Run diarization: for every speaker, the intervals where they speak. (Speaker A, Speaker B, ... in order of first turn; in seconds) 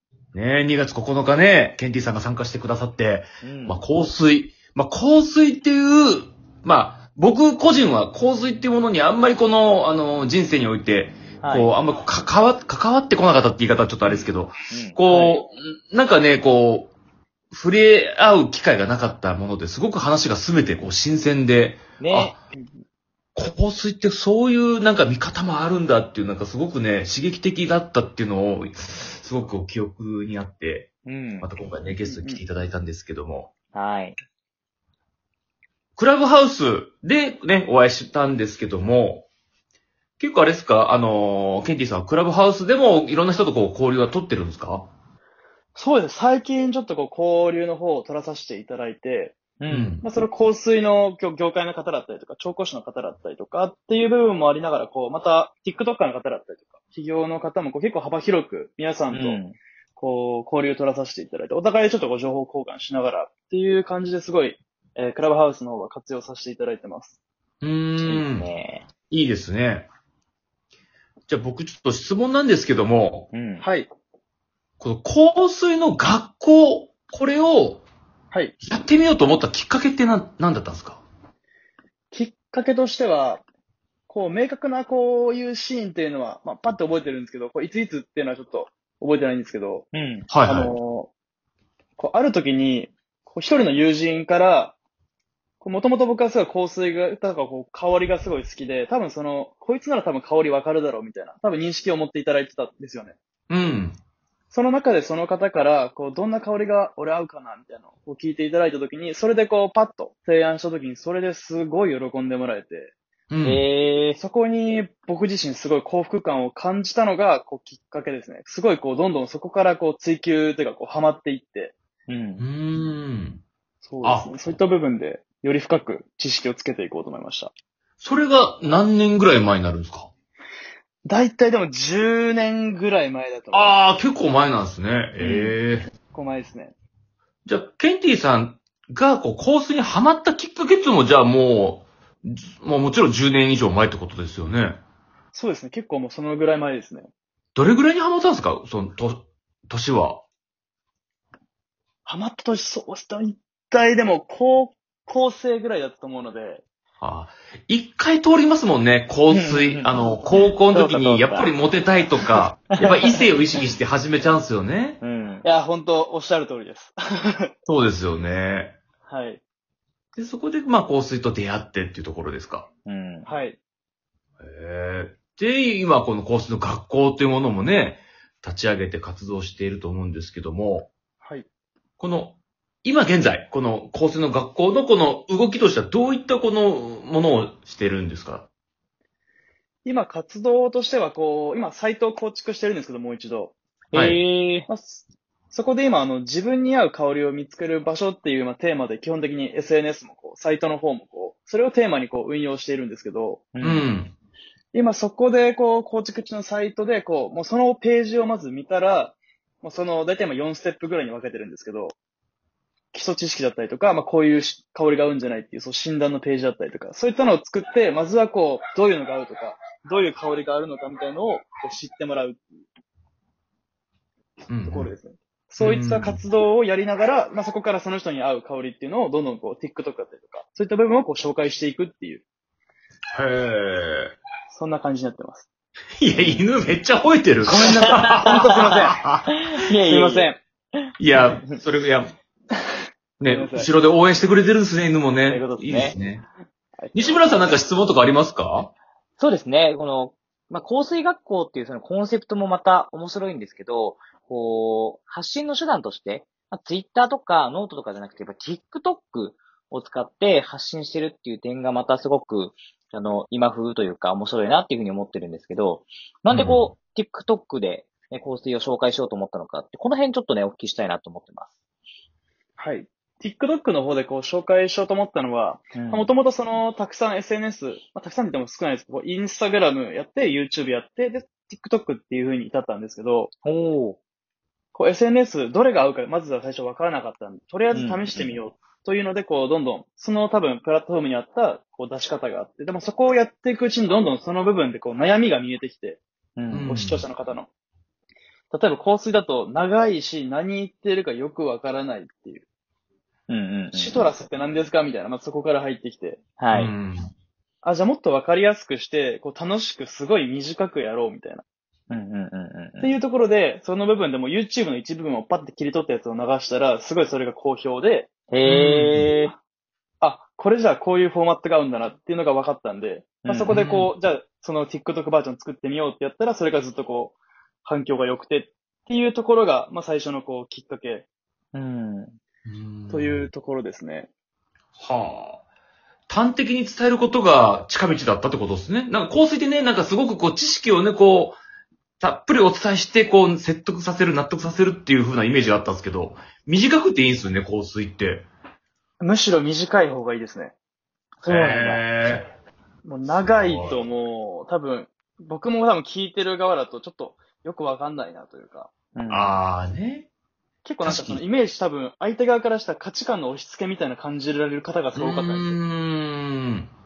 Speaker A: 0.3-16.9, 17.5-22.4, 23.3-30.9, 31.4-33.5, 36.0-39.3, 40.2-44.9, 49.7-50.0, 67.6-68.5, 69.1-69.9, 71.3-73.3, 74.8-77.8, 78.6-81.0, 90.3-90.7, 103.5-104.0, 113.3-113.6, 122.4-123.4, 124.0-124.6, 128.0-130.1, 133.5-135.9, 137.4-144.8, 147.5-150.2, 157.0-165.0, 167.7-168.8, 170.2-172.7, 174.4-180.9, 182.0-188.5, 203.6-204.1, 224.5-224.9, 225.6-226.2, 233.1-234.1, 236.0-239.5, 241.0-242.1, 243.2-246.2, 246.9-248.7, 266.3-266.7, 296.5-297.0, 306.5-307.1, 323.5-323.8, 332.4-333.3, 334.8-335.4, 336.1-341.4, 342.0-348.2, 351.2-352.3, 353.1-353.8, 359.1-360.1, 360.8-361.2, 364.9-366.7
Speaker B: 3.4-3.8, 11.4-11.7, 14.7-15.3, 22.0-22.3, 31.1-31.5, 33.7-34.2, 49.6-50.0, 59.1-59.6, 68.0-68.8, 73.3-73.7, 89.9-90.3, 113.4-114.2, 122.1-122.4, 159.3-159.9, 160.7-161.5, 162.7-163.2, 165.0-165.4, 172.8-173.3, 193.9-194.7, 203.5-203.8, 236.1-236.5, 237.9-240.3, 245.2-245.9, 249.2-271.5, 275.7-276.1, 283.4-284.0, 287.7-288.4, 296.4-296.7, 303.3-304.0, 306.4-306.7, 311.9-312.9, 318.3-319.3, 323.2-323.8, 331.5-332.1, 351.2-351.8, 358.9-359.4
Speaker C: 32.0-32.4, 45.8-49.4, 50.0-59.4, 60.0-67.2, 73.6-73.9, 82.1-83.4, 84.1-89.8, 90.5-91.1, 92.0-94.7, 95.6-103.2, 104.5-112.9, 114.2-121.7, 123.8-127.5, 131.0-133.8, 135.2-135.5, 136.1-136.7, 145.3-147.1, 152.1-156.6, 165.4-167.5, 169.1-169.4, 173.2-173.6, 181.2-181.4, 189.8-193.5, 194.7-203.5, 204.7-211.9, 212.9-222.5, 224.6-232.2, 234.5-235.5, 237.8-238.9, 239.8-240.4, 243.2-243.7, 246.8-247.5, 272.6-283.3, 284.7-296.0, 296.6-297.5, 298.5-302.4, 303.7-306.2, 307.6-311.4, 312.8-319.2, 320.0-331.0, 332.9-334.1, 349.0-350.5, 352.8-358.7, 360.6-365.6